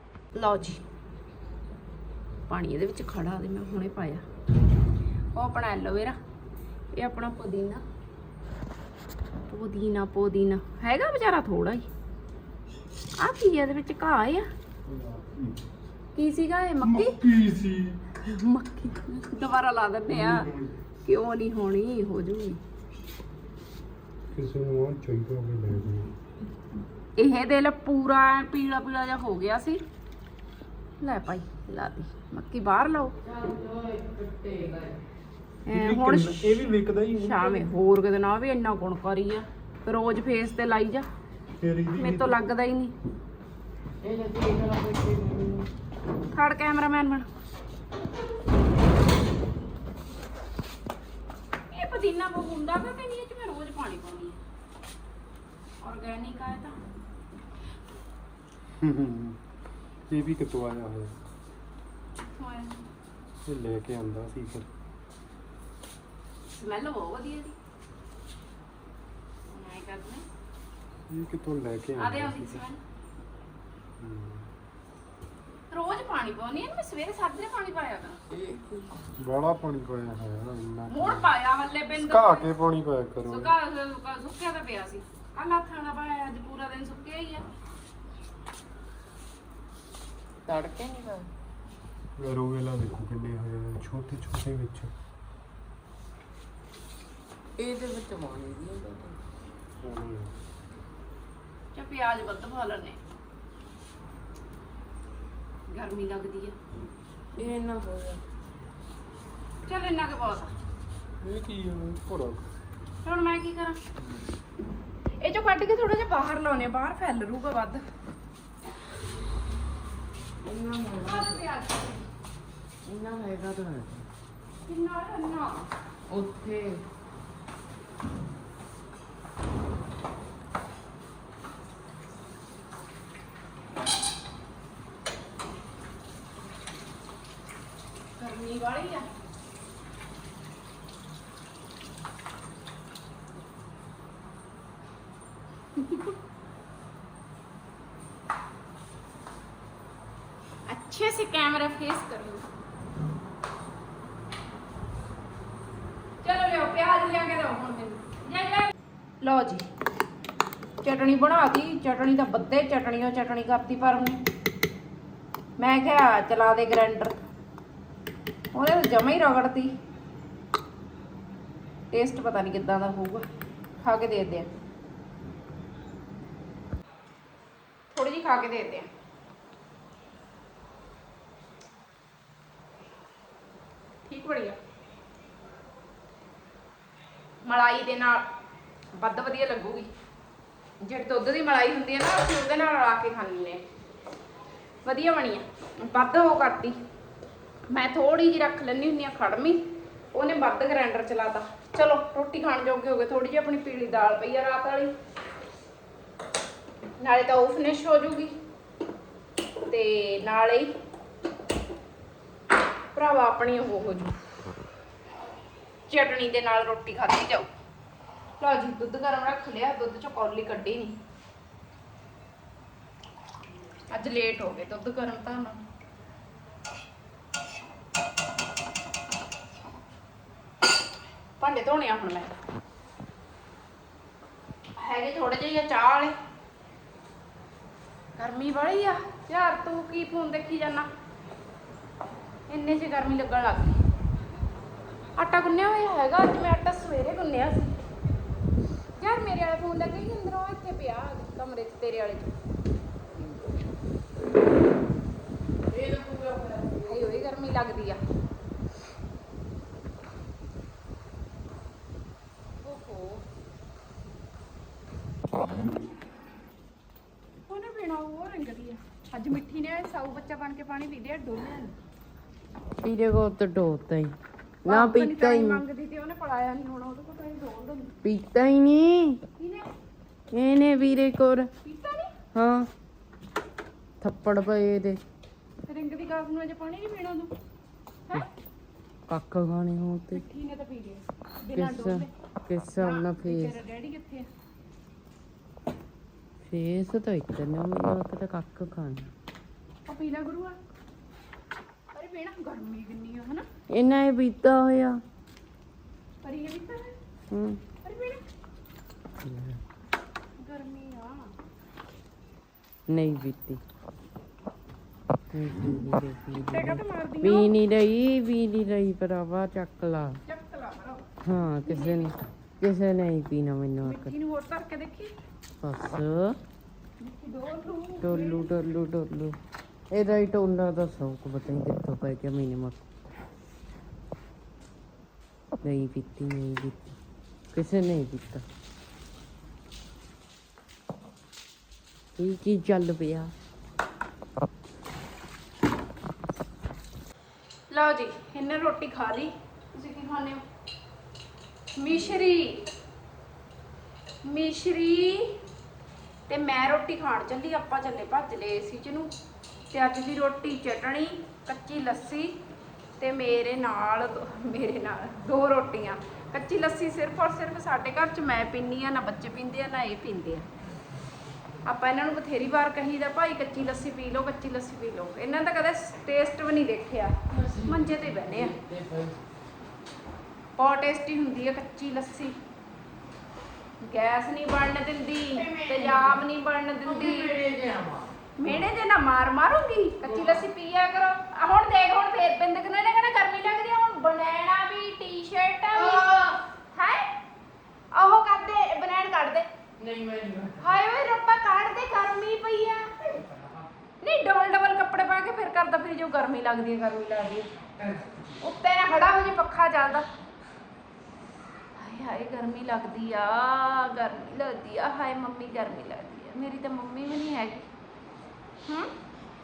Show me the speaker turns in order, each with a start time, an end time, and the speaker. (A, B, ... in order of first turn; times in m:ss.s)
0:00.3-0:00.8 A
0:02.5-0:04.2 A
0:05.3-0:06.2 A
0:06.9-0:07.8 A
0:09.5-0:11.9 A
0:13.2-0:14.5 A
0:14.8-0:15.6 B
0:16.1-0:17.1 A
0:16.8-0:18.0 B
0:18.1-0:20.5 A
0:20.1-0:20.7 B
0:21.0-0:22.6 A
0:24.3-0:26.1 B
0:27.2-0:29.8 A
0:31.0-0:33.1 A
0:33.2-0:35.0 C
0:35.6-0:36.4 A
0:35.7-0:37.7 B
0:37.2-0:41.1 A
0:41.6-0:42.4 B
0:41.9-0:42.9 A
0:44.0-0:45.7 C
0:46.3-0:47.3 A
0:51.7-0:54.4 A
0:55.8-0:56.8 A
0:58.8-0:59.4 B
1:00.1-1:01.1 B
1:02.3-1:02.8 A
1:03.4-1:04.7 B
1:06.5-1:07.6 A
1:09.5-1:10.2 A
1:11.1-1:12.6 B
1:12.0-1:12.8 A
1:14.0-1:14.5 B
1:15.7-1:18.2 A
1:18.3-1:18.9 C
1:19.2-1:21.3 B
1:20.9-1:22.5 A
1:22.0-1:23.5 B
1:23.3-1:27.4 A
1:30.4-1:31.3 C
1:32.2-1:34.9 B
1:37.6-1:39.2 C
1:39.8-1:40.3 B
1:41.7-1:43.0 A
1:45.7-1:46.6 A
1:47.4-1:48.2 C
1:49.6-1:50.5 A
1:51.2-1:52.4 B
1:53.0-1:53.8 A
1:55.2-1:57.8 A
2:00.4-2:01.4 C
2:01.0-2:02.0 A
2:02.8-2:04.0 C
2:04.6-2:05.7 A
2:06.1-2:06.8 C
2:18.2-2:19.1 A
2:25.8-2:26.1 A
2:30.7-2:32.4 A
2:36.2-2:39.6 A
2:40.8-2:44.2 A
2:45.6-2:47.1 A
2:48.5-2:49.7 A
2:51.9-2:53.2 A
2:53.8-2:54.5 A
2:57.9-2:58.9 A
3:04.0-3:04.6 A
3:07.4-3:08.2 A
3:08.9-3:09.9 A
3:10.8-3:13.6 A
3:14.8-3:16.8 A
3:17.7-3:19.6 A
3:20.1-3:24.9 A
3:27.0-3:28.3 A
3:29.7-3:30.7 A
3:32.9-3:34.1 A
3:35.9-3:37.5 A
3:38.4-3:41.0 A
3:43.9-3:45.6 A
3:51.4-3:52.3 A
3:54.8-3:56.1 A
3:58.2-4:00.9 A
4:02.5-4:03.8 A
4:05.2-4:07.7 A
4:09.0-4:12.3 A
4:15.7-4:17.0 C
4:16.8-4:18.0 A
4:22.6-4:23.2 A
4:27.5-4:31.7 A
4:32.8-4:35.6 C
4:34.6-4:37.9 A
4:38.0-4:39.2 C
4:39.4-4:39.7 A
4:40.3-4:41.5 C
4:41.6-4:42.1 A
4:42.3-4:42.7 C
4:44.0-4:45.0 C
4:45.6-4:47.3 A
4:49.1-4:50.2 C
4:50.1-4:52.1 A
4:51.5-4:53.5 C
4:52.8-4:54.3 A
4:56.4-4:59.1 C
4:59.8-5:00.6 A
5:01.9-5:03.4 A
5:03.7-5:05.0 C
5:06.2-5:06.9 A
5:07.3-5:07.6 C
5:07.8-5:08.2 A
5:09.2-5:09.6 C
5:10.4-5:11.3 A
5:12.9-5:13.6 C
5:15.3-5:20.2 C
5:16.4-5:17.5 A
5:20.2-5:21.1 A
5:21.2-5:24.1 C
5:21.6-5:22.2 A
5:23.8-5:25.1 A
5:25.6-5:26.4 C
5:27.0-5:28.5 A
5:28.0-5:29.4 C
5:29.9-5:32.8 C
5:35.6-5:36.9 C
5:37.5-5:38.4 C
5:42.2-5:43.3 C
5:47.7-5:50.4 A
5:51.8-5:52.6 A
5:54.2-5:55.4 A
5:56.3-5:59.1 A
5:59.7-6:02.3 A
6:03.0-6:10.5 A
6:11.6-6:18.5 A
6:17.3-6:19.2 C
6:20.6-6:22.4 A
6:23.8-6:27.3 A
6:25.4-6:26.2 C
6:26.8-6:28.7 C
6:28.4-6:36.1 A
6:30.0-6:30.4 C
6:35.7-6:36.4 C
6:36.7-6:37.1 A
6:37.9-6:39.5 A
6:39.8-6:40.7 C
6:40.6-6:43.0 A
6:43.1-6:43.6 C
6:44.0-6:47.5 A
6:47.8-6:48.2 C
6:48.4-6:50.1 A
6:51.8-6:57.7 A